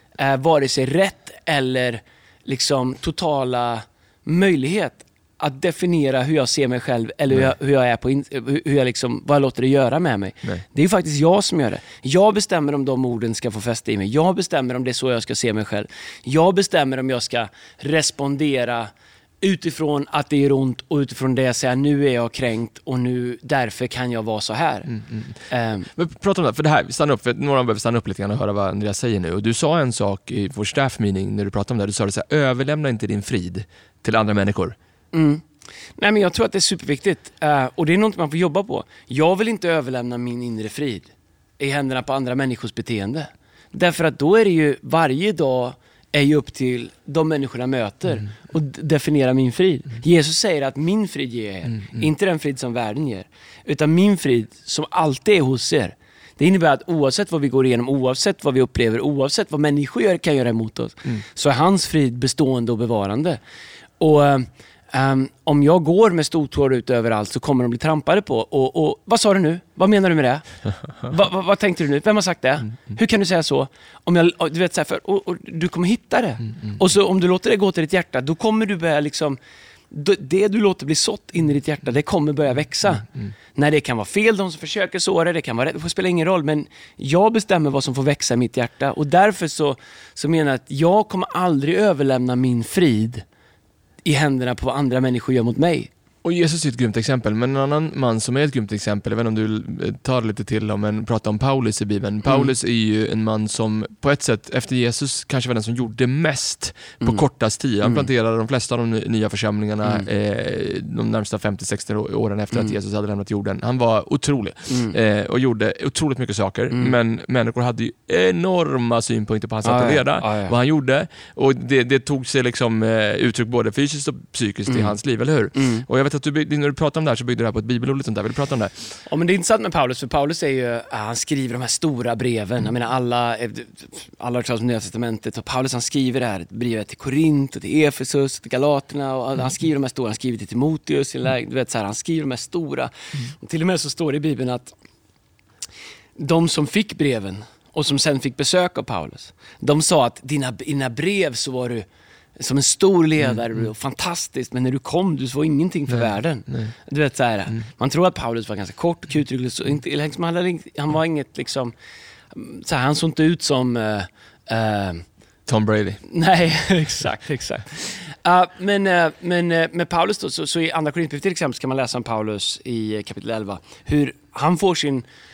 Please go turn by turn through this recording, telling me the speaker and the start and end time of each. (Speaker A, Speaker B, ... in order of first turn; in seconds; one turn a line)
Speaker A: 0.2-24.9
Speaker B: 24.9-25.4
Speaker A: 25.5-25.9
Speaker B: 25.9-34.8
Speaker A: 35.1-35.5
Speaker A: 36.0-63.4
Speaker A: 64.0-79.4
Speaker A: 79.9-93.2
Speaker A: 94.0-95.9
Speaker B: 96.2-128.9
Speaker A: 114.7-115.0
Speaker A: 119.6-120.5
Speaker A: 124.7-124.9
Speaker A: 125.5-125.9
Speaker A: 129.1-144.8
Speaker A: 146.2-151.8
Speaker A: 152.4-161.7
Speaker B: 155.9-156.7
Speaker A: 162.3-165.1
Speaker B: 165.5-166.0
Speaker A: 166.0-175.1